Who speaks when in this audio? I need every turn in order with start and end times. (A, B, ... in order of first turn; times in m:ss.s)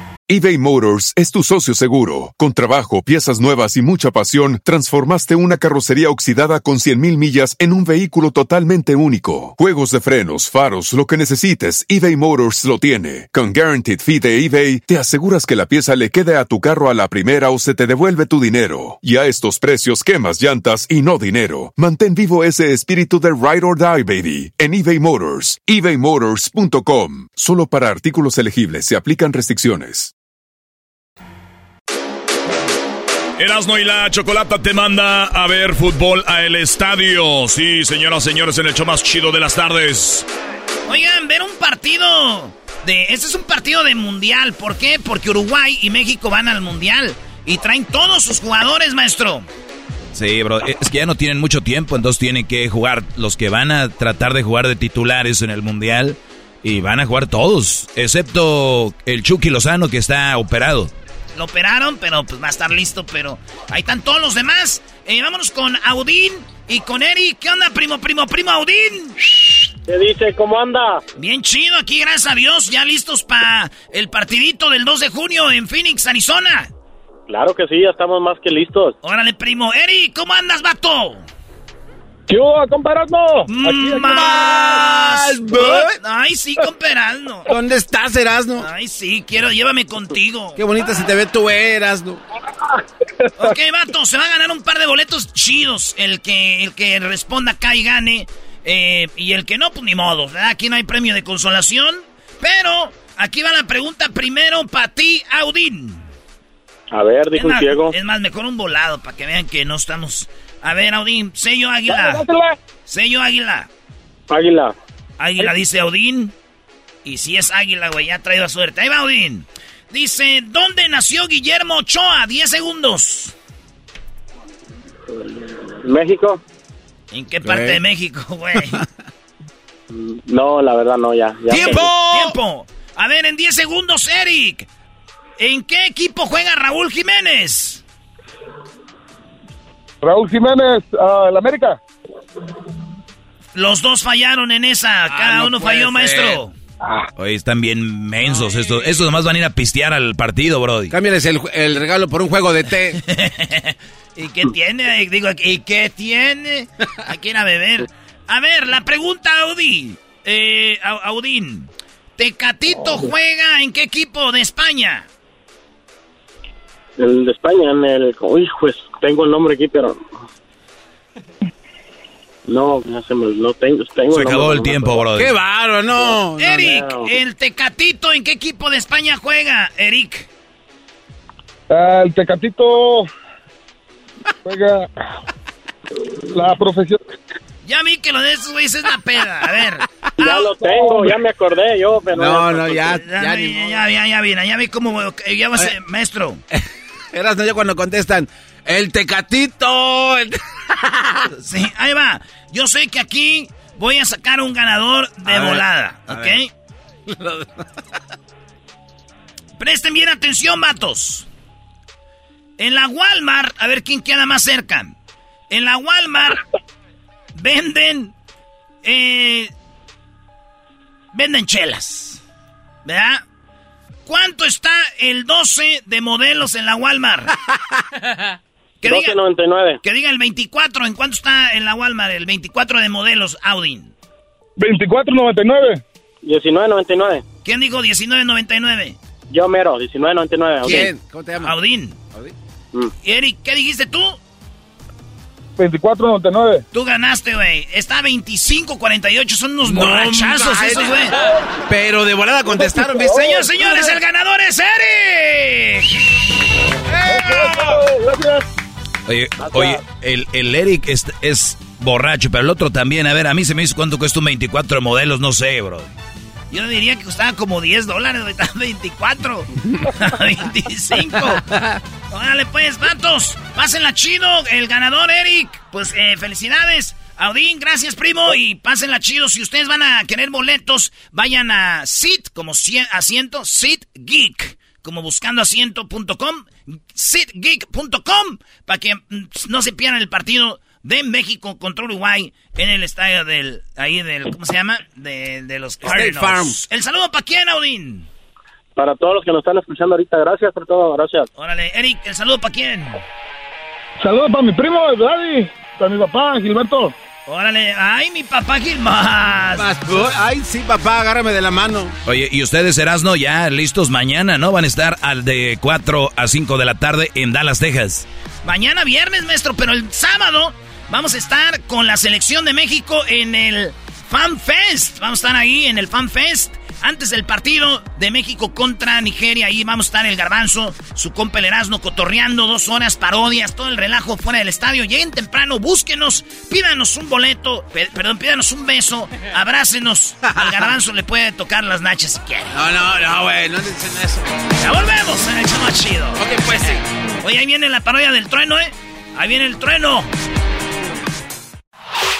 0:00.3-0:30.1 A
0:33.4-0:40.2 B
0:40.8-0:49.4 C
0:50.1-1:00.9 D
1:01.4-1:09.6 C
1:09.9-1:11.0 E
1:11.2-1:16.7 C
1:17.3-1:18.9 E
1:19.0-1:21.2 C
1:23.4-1:27.5 C
1:24.1-1:25.1 F
1:27.5-1:28.6 F
1:28.6-1:30.6 C
1:30.6-1:32.2 F
1:33.4-1:46.0 C
1:46.9-1:47.9 E
1:47.3-1:52.2 C
1:52.9-1:53.7 C
1:54.3-1:54.7 E
1:55.2-1:56.3 C
1:57.0-2:03.3 C
2:05.8-2:06.4 E
2:07.1-2:08.8 C
2:07.4-2:07.8 F
2:09.9-2:11.9 E
2:11.5-2:12.3 F
2:11.5-2:14.7 C
2:15.4-2:17.8 C
2:20.0-2:21.7 G
2:23.5-2:26.5 C
2:25.1-2:26.4 F
2:27.2-2:30.9 D
2:30.9-2:33.0 F
2:33.1-2:45.0 C
2:47.0-2:50.0 E
2:52.5-2:54.9 E
2:54.1-2:55.3 D
2:55.1-2:56.9 F
2:56.4-3:00.3 C
3:01.7-3:03.0 G
3:04.5-3:04.8 G
3:06.3-3:07.0 G
3:07.6-3:10.6 C
3:10.2-3:12.8 E
3:12.1-3:13.8 F
3:12.9-3:16.4 C
3:17.1-3:21.3 F
3:21.3-3:26.5 C
3:25.2-3:26.4 F
3:27.1-3:27.6 F
3:29.6-3:31.3 C
3:32.6-3:34.9 C
3:35.5-3:36.4 C
3:37.3-3:38.1 C
3:38.8-3:39.5 C
3:41.1-3:42.2 C
3:42.8-3:43.2 C
3:44.0-3:47.3 C
3:48.8-3:49.2 C
3:48.8-3:49.8 E
3:49.8-3:53.9 C
3:54.6-3:55.8 G
3:56.2-3:57.2 E
3:57.4-3:59.0 C
3:59.3-4:00.9 E
4:00.6-4:01.5 F
4:01.4-4:02.0 C
4:03.0-4:04.2 C
4:05.6-4:06.6 G
4:06.7-4:11.2 C
4:09.7-4:11.1 F
4:11.7-4:13.3 F
4:13.1-4:16.0 C
4:17.0-4:17.5 F
4:19.1-4:25.9 D
4:26.5-4:31.4 C
4:31.3-4:31.8 F
4:32.1-4:58.1 C
4:55.8-4:56.6 F
4:58.8-5:01.2 H
5:01.4-5:03.0 C
5:04.0-5:06.9 G
5:07.2-5:09.7 C
5:09.6-5:11.9 F
5:12.0-5:18.0 D
5:18.4-5:42.6 C
5:40.2-5:40.7 F
5:42.5-5:44.3 F
5:44.6-5:50.1 C
5:46.2-5:46.8 F